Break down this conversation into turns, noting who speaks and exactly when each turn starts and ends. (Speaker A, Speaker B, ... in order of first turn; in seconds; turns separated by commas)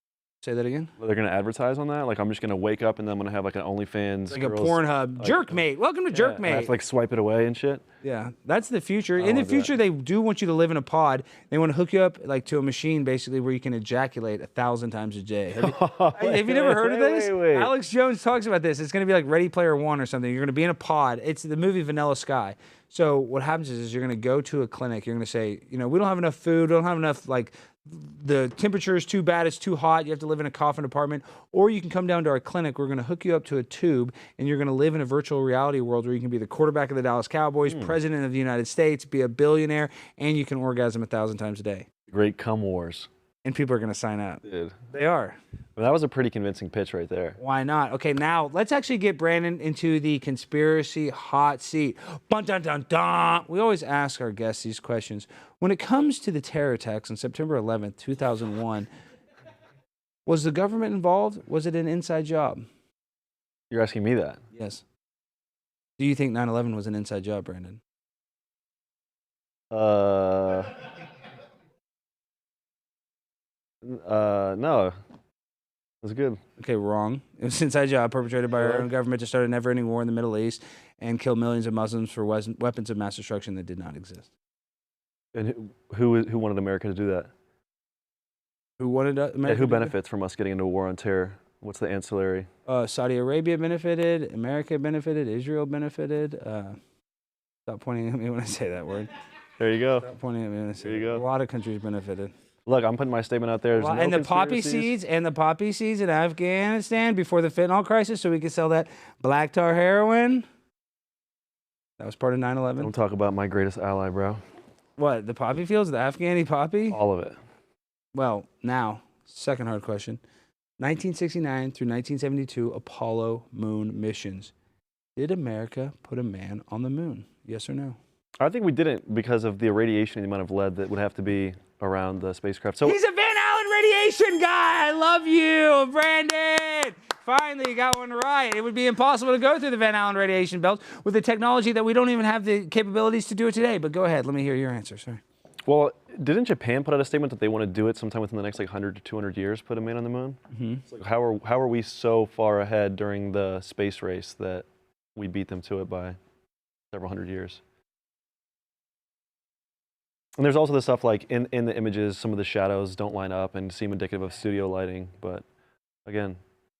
Speaker A: 0.4-0.9, Speaker B: 1.0-7.8, Speaker A: 4.3-6.7, Speaker A: 8.0-41.9, Speaker B: 9.2-9.7, Speaker B: 15.6-17.7, Speaker B: 37.6-38.0, Speaker B: 42.1-43.1, Speaker A: 43.4-45.4, Speaker B: 44.4-44.7, Speaker B: 45.8-47.4, Speaker A: 47.4-58.9, Speaker A: 60.2-62.6, Speaker B: 63.7-64.4, Speaker A: 64.5-64.8, Speaker A: 66.0-67.8, Speaker B: 69.7-70.8, Speaker B: 73.8-74.9, Speaker B: 76.0-76.4, Speaker A: 76.6-84.3, Speaker B: 78.6-78.9, Speaker B: 85.3-87.3, Speaker A: 88.8-89.9, Speaker B: 89.5-92.5, Speaker A: 92.7-96.8, Speaker A: 97.7-99.1, Speaker B: 99.6-100.1, Speaker A: 100.0-102.3, Speaker B: 100.8-101.2, Speaker B: 102.7-104.9, Speaker A: 103.7-110.5, Speaker A: 112.0-112.9, Speaker B: 112.8-114.4, Speaker A: 115.0-117.0, Speaker B: 116.9-117.4, Speaker A: 118.1-120.2, Speaker A: 120.8-124.5, Speaker A: 125.2-128.0, Speaker B: 128.4-133.0, Speaker A: 132.8-145.2, Speaker B: 145.7-156.2, Speaker A: 150.5-150.8, Speaker B: 156.9-157.6, Speaker B: 160.4-165.4, Speaker B: 166.1-166.4